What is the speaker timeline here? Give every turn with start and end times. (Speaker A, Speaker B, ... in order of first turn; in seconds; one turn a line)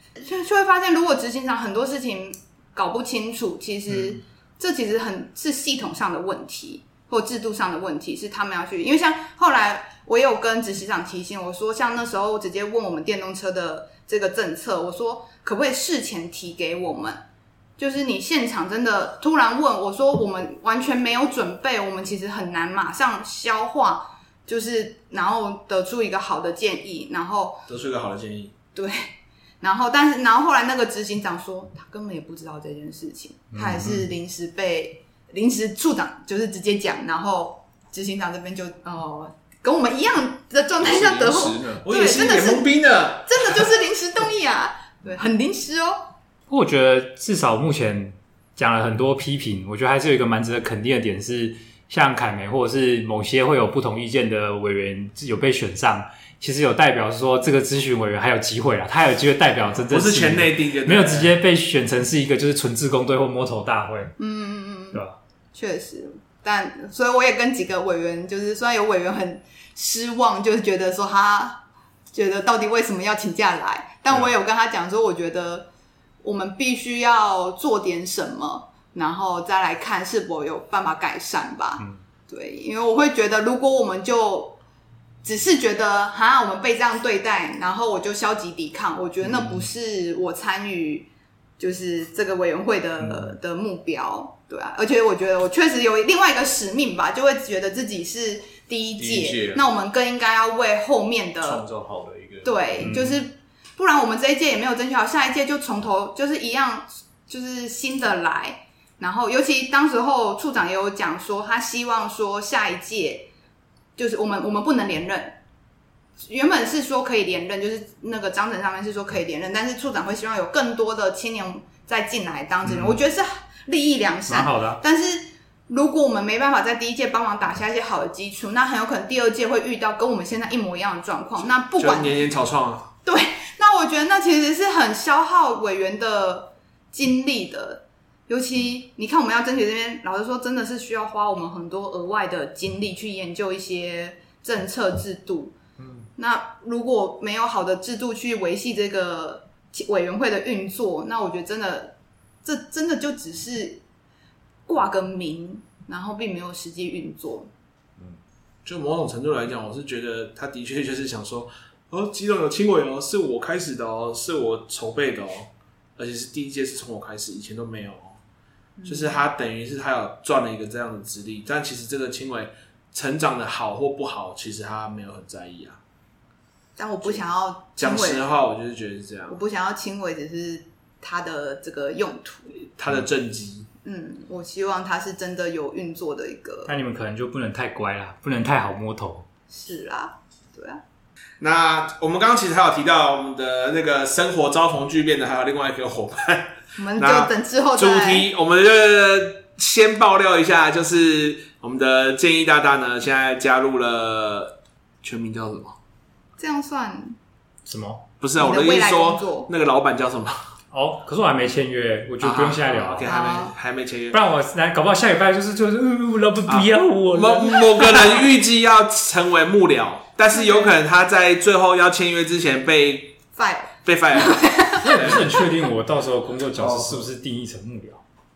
Speaker A: 0.2-17.2
Speaker A: 17.8-27.7
Speaker B: 27.7-28.5
Speaker A: 28.7-42.7
Speaker C: 33.5-34.1
Speaker D: 40.8-41.8
Speaker B: 41.8-43.7
Speaker A: 43.3-46.0
Speaker C: 46.5-64.1
Speaker B: 59.8-61.4
Speaker A: 64.2-65.0
Speaker A: 65.5-71.6
Speaker A: 72.1-75.7
Speaker A: 76.2-84.6
Speaker A: 85.2-101.6
Speaker C: 89.2-89.6
Speaker C: 93.0-93.4
Speaker D: 99.0-99.6
Speaker D: 101.4-103.0
Speaker A: 102.4-113.3
Speaker C: 102.8-103.2
Speaker A: 114.0-115.4
Speaker A: 116.2-132.3
Speaker C: 122.6-123.0
Speaker C: 124.3-124.8
Speaker B: 131.8-132.9
Speaker A: 133.1-145.6
Speaker A: 146.2-153.8
Speaker A: 154.7-157.5
Speaker B: 158.6-168.2
Speaker A: 168.8-169.2
Speaker B: 168.9-175.8
Speaker A: 176.8-178.3
Speaker B: 177.8-179.4
Speaker A: 179.3-182.5
Speaker B: 182.8-183.7
Speaker A: 183.8-186.7
Speaker C: 186.7-189.3
Speaker A: 189.5-190.8
Speaker B: 191.4-205.8
Speaker A: 196.8-198.3
Speaker A: 206.4-207.2
Speaker C: 207.7-208.0
Speaker B: 208.2-210.4
Speaker A: 208.4-209.5
Speaker C: 210.7-213.1
Speaker B: 212.2-214.2
Speaker A: 213.1-213.5
Speaker C: 214.1-218.2
Speaker B: 216.5-223.2
Speaker A: 220.3-220.7
Speaker A: 223.4-225.2
Speaker B: 223.8-225.3
Speaker C: 224.8-228.0
Speaker D: 226.6-227.1